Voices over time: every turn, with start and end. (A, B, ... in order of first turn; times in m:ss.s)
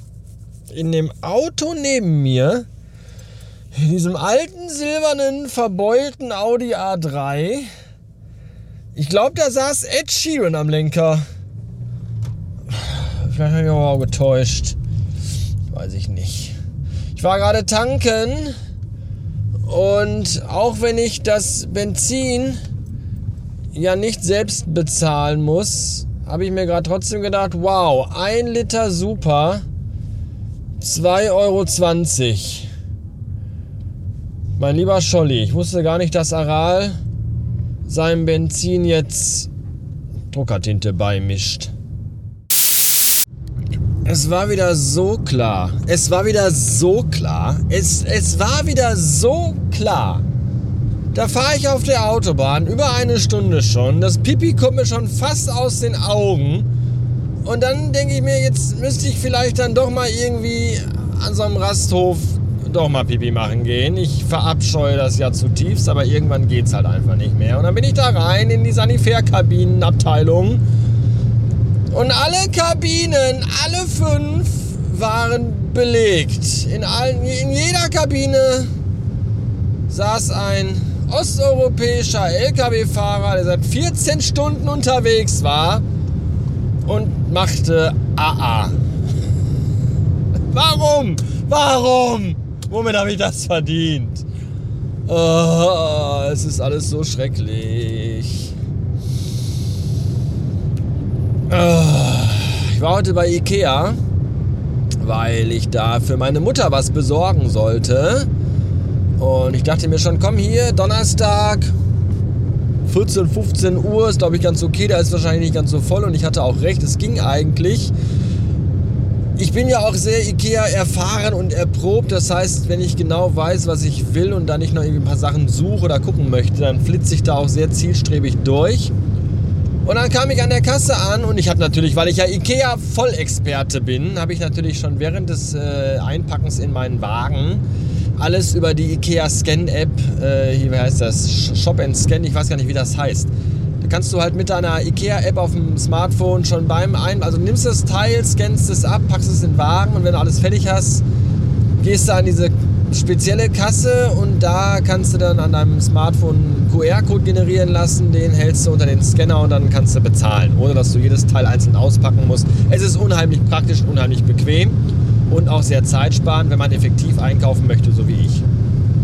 0:00.7-0:02.7 A
0:03.7-0:07.7 A
0:08.9-0:11.2 A
0:12.7-0:14.8 A
0:15.7-0:16.6 A
0:17.2-0:18.6 A
0:19.6-0:22.6 A
0:23.7-0:29.6 A
0:30.8-0:32.7 A
0:34.6-0:37.0 A
0:37.9-0:39.5 A
0:40.3-0:41.7 A
0:44.0-0:50.3 A
0:51.1-0:56.7 A
0:57.4-1:10.6 A
1:11.9-1:18.7 A
1:19.9-1:25.8 A
1:26.8-1:28.8 A
1:30.5-1:34.2 A
1:35.1-1:38.5 A
1:41.5-1:44.0 A
1:45.0-1:48.3 A
1:49.2-1:51.7 A
1:52.9-1:57.9 A
1:59.4-2:08.9 A
2:09.8-2:17.6 A
2:18.2-2:31.0 A
2:31.8-2:44.8 A
2:45.3-2:48.4 A